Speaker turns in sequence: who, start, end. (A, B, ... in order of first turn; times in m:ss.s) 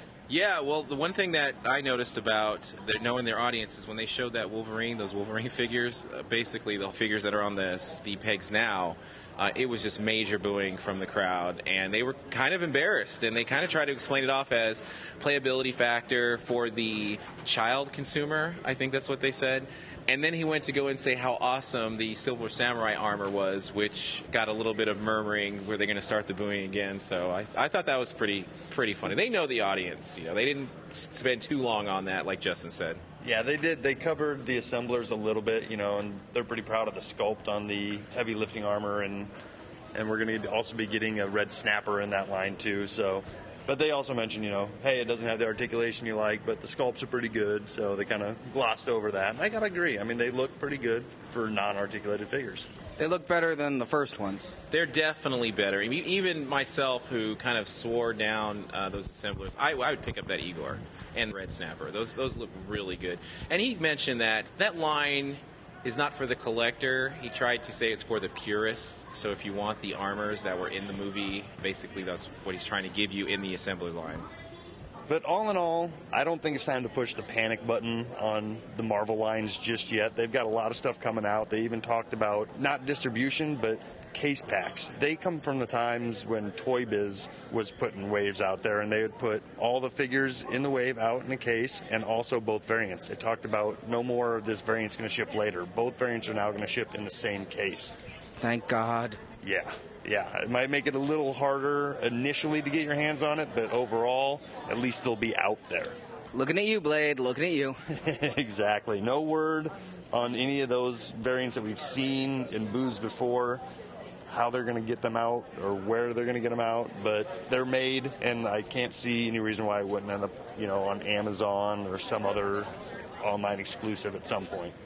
0:00.3-0:33.0 A
0:33.2-0:39.3 B
0:39.9-0:52.7 B
0:53.0-0:54.5 C
0:54.7-1:14.3 A
1:15.1-1:37.9 B
1:38.4-1:39.2 C
1:39.4-1:46.0 B
1:46.3-1:47.8 C
1:47.9-1:53.6 B
1:54.3-2:02.7 B
2:03.2-2:04.7 B